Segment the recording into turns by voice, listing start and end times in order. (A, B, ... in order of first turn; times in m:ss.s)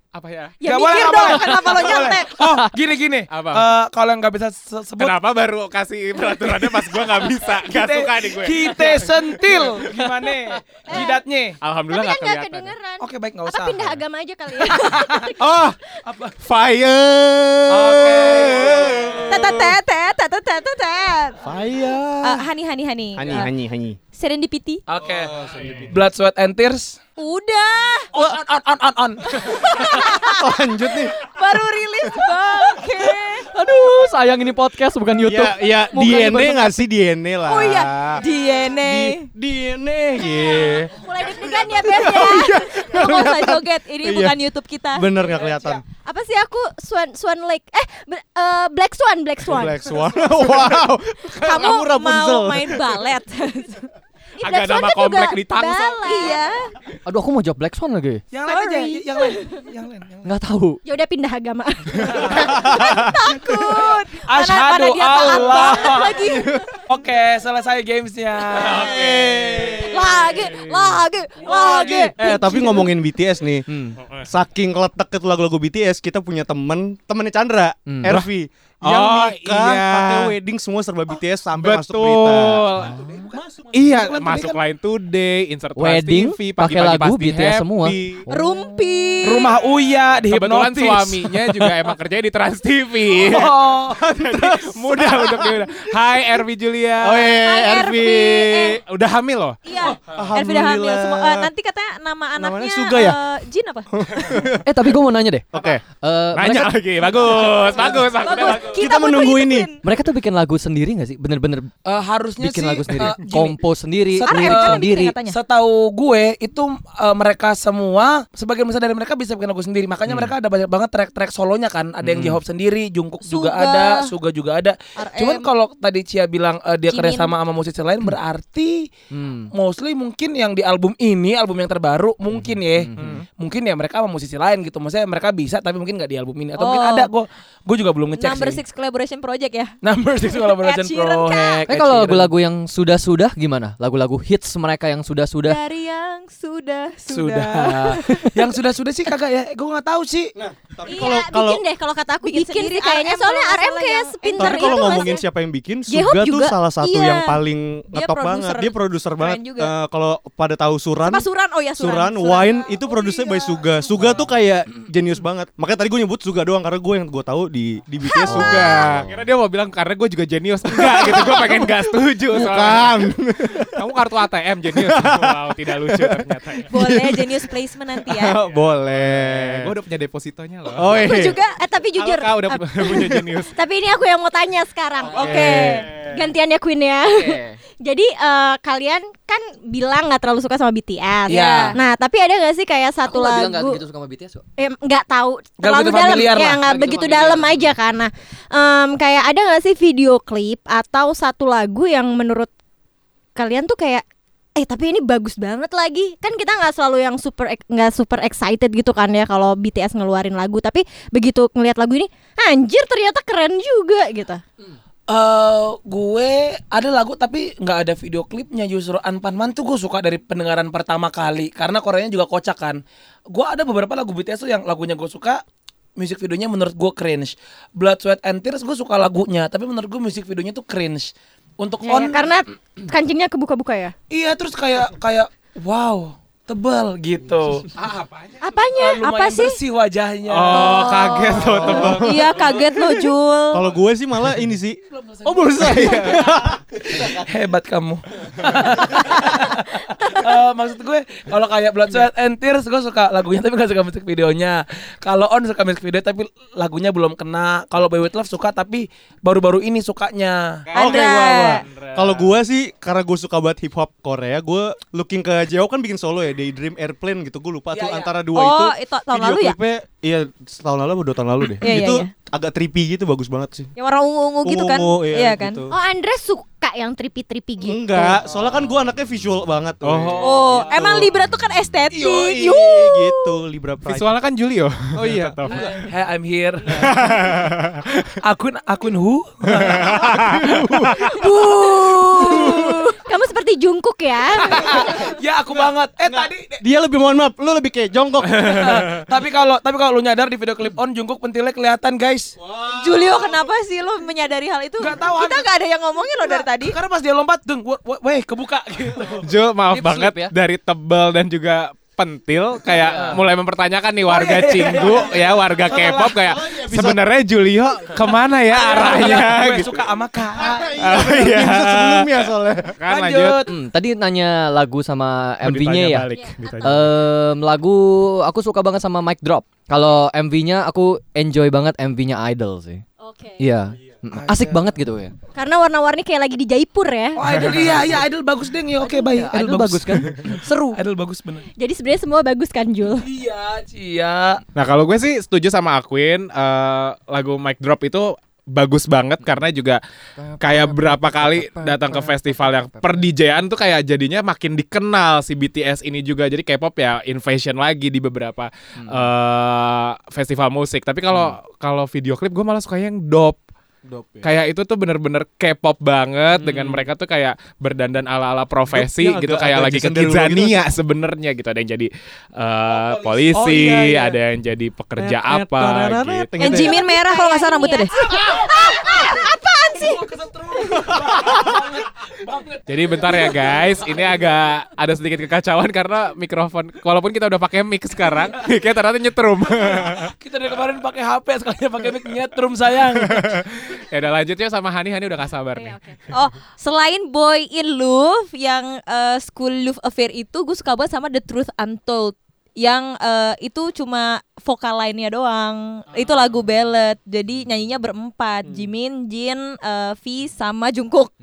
0:00.1-0:00.6 A
0:00.6-0:02.2 B
0:00.6-0:05.2 C
0:00.7-0:02.3 D
0:02.4-0:02.7 E
0:03.3-0:03.7 A
0:05.0-0:09.9 A
0:07.6-0:11.6 C
0:10.9-0:11.2 B
0:11.6-0:12.7 A
0:11.9-0:15.4 B
0:13.0-0:13.9 C
0:14.6-0:15.4 C
0:15.4-0:15.7 F
0:16.0-0:16.3 C
0:16.4-0:19.7 F
0:17.7-0:19.5 C
0:19.3-0:21.4 D
0:21.4-0:22.4 F
0:22.2-0:23.5 D
0:23.2-0:24.0 F
0:24.1-0:24.8 D
0:24.9-0:27.0 C
0:25.4-0:25.8 F
0:25.6-0:25.9 A
0:27.2-0:28.1 D
0:28.1-0:29.7 C
0:29.4-0:33.5 D
0:30.0-0:31.2 F
0:33.4-0:36.8 E
0:35.2-0:44.4 F
0:37.4-0:39.3 D
0:40.6-0:42.6 B
0:41.3-0:45.1 D
0:44.9-0:45.8 F
0:45.2-0:45.8 C
0:46.0-0:50.2 B
0:49.4-0:52.9 F
0:51.3-0:53.9 D
0:54.4-0:56.4 B
0:54.4-0:56.2 A
0:56.0-0:56.7 D
0:57.0-0:58.2 E
0:58.3-1:00.2 C
0:58.5-0:59.4 D
1:00.2-1:00.8 E
1:00.8-1:03.8 B
1:02.0-1:02.6 C
1:02.3-1:03.5 F
1:02.9-1:06.6 D
1:03.6-1:06.2 C
1:06.2-1:06.6 F
1:06.9-1:09.0 C
1:08.6-1:10.3 F
1:08.6-1:10.4 A
1:09.8-1:12.8 D
1:11.4-1:13.7 F
1:11.5-1:11.7 C
1:13.7-1:14.0 E
1:14.2-1:22.6 F
1:17.9-1:18.2 E
1:18.8-1:20.3 A
1:21.5-1:23.0 A
1:22.8-1:24.6 C
1:23.7-1:28.2 A
1:25.8-1:28.5 E
1:28.3-1:29.6 D
1:29.2-1:31.4 C
1:30.2-1:33.6 A
1:33.1-1:34.0 C
1:33.8-1:35.8 F
1:34.1-1:37.3 A
1:37.0-1:38.8 F
1:37.2-1:38.8 D
1:38.7-1:39.6 A
1:39.6-1:43.9 D
1:40.0-1:41.5 F
1:42.4-1:43.2 F
1:43.9-1:44.7 F
1:44.6-1:46.7 E
1:45.5-1:45.8 F
1:46.3-1:48.8 A
1:47.7-1:48.0 F
1:48.2-1:49.8 D
1:48.6-1:49.7 F
1:49.8-1:51.7 E
1:51.8-1:53.6 C
1:52.4-1:55.1 E
1:54.2-2:08.9 C
1:54.2-1:55.4 D
2:02.0-2:02.4 E
2:03.2-2:04.1 D
2:05.0-2:05.5 D
2:06.9-2:07.4 D
2:09.1-2:09.5 E
2:09.5-2:18.6 C
2:12.4-2:13.2 E
2:16.6-2:17.1 D
2:18.2-2:19.7 D
2:19.8-2:22.3 C
2:20.3-2:21.6 D
2:21.6-2:25.6 E
2:25.4-2:28.4 D
2:27.1-2:30.3 C
2:30.3-2:31.6 F
2:30.8-2:35.2 B
2:32.2-2:35.2 D
2:34.4-2:49.1 F
2:35.9-2:37.4 D
2:37.9-2:39.7 D
2:41.0-2:43.8 D
2:48.2-2:48.7 D
2:48.3-2:53.0 A
2:48.3-2:49.1 E
2:50.7-2:53.8 F
2:53.7-2:56.7 A
2:54.7-2:57.5 F
2:56.7-2:58.4 D
2:58.0-2:59.7 F
2:58.5-3:01.2 A
3:00.7-3:01.4 F
3:01.0-3:03.0 B
3:02.0-3:03.5 A
3:03.5-3:13.8 B
3:05.1-3:06.0 A
3:05.2-3:05.8 F
3:07.0-3:07.6 E
3:11.3-3:11.8 C
3:11.4-3:11.8 D
3:13.0-3:14.4 E
3:14.6-3:22.5 B
3:15.6-3:16.6 C
3:16.6-3:17.7 E
3:23.4-3:24.0 B
3:24.6-3:34.4 B
3:35.1-3:45.4 C
3:46.0-3:52.3 C
3:51.8-3:53.9 B
3:54.1-3:57.8 C
3:57.8-3:58.3 A
3:58.4-3:59.6 B
3:58.7-4:00.9 C
4:00.3-4:02.2 A
4:00.7-4:03.7 D
4:00.8-4:01.3 B
4:01.4-4:02.5 F
4:03.5-4:07.2 F
4:04.9-4:20.7 C
4:20.7-4:22.3 A
4:20.7-4:21.6 D
4:20.7-4:33.7 F
4:27.7-4:28.2 C
4:28.3-4:29.6 D
4:31.6-4:32.1 D
4:33.8-4:35.6 D
4:34.4-4:35.7 F
4:35.7-4:38.2 B
4:37.6-4:41.1 F
4:39.8-4:41.0 A
4:40.2-4:43.4 D
4:41.9-4:44.1 F
4:43.8-4:45.8 A
4:44.9-4:45.8 F
4:45.5-4:47.0 C
4:46.7-4:48.1 A
4:48.2-4:50.4 C
4:49.7-4:52.8 F
4:49.8-4:50.9 A
4:51.1-4:54.8 B
4:54.4-4:56.6 C
4:56.0-4:58.8 F
4:58.3-5:02.4 C
5:02.4-5:03.2 F
5:02.7-5:06.8 D
5:04.8-5:05.5 C
5:06.2-5:09.2 C
5:09.2-5:19.8 A
5:09.7-5:10.3 E
5:12.8-5:13.2 C
5:14.1-5:16.2 C
5:15.7-5:17.0 F
5:18.5-5:21.0 C
5:20.4-5:22.8 F
5:20.8-5:23.4 A
5:22.9-5:23.5 C
5:23.4-5:26.1 E
5:25.4-5:26.9 A
5:26.6-5:32.8 E
5:33.0-5:33.4 B
5:33.4-5:35.1 E
5:34.1-5:34.6 C
5:35.3-5:37.2 B
5:37.2-5:41.4 C
5:38.8-5:40.8 E
5:41.6-5:43.1 B
5:42.9-5:44.4 C
5:44.5-5:49.8 A
5:50.2-5:53.1 E
5:50.4-6:03.4 A
5:58.8-5:59.1 E
6:03.9-6:04.2 F
6:04.2-6:16.5 A
6:08.7-6:10.6 F
6:12.8-6:14.1 C
6:13.3-6:13.8 F
6:15.0-6:16.8 F
6:16.4-6:18.1 D
6:16.8-6:20.0 B
6:19.7-6:24.2 C
6:21.0-6:21.5 F
6:22.7-6:30.1 A
6:29.6-6:33.4 C
6:33.1-6:35.8 A
6:36.1-6:51.1 D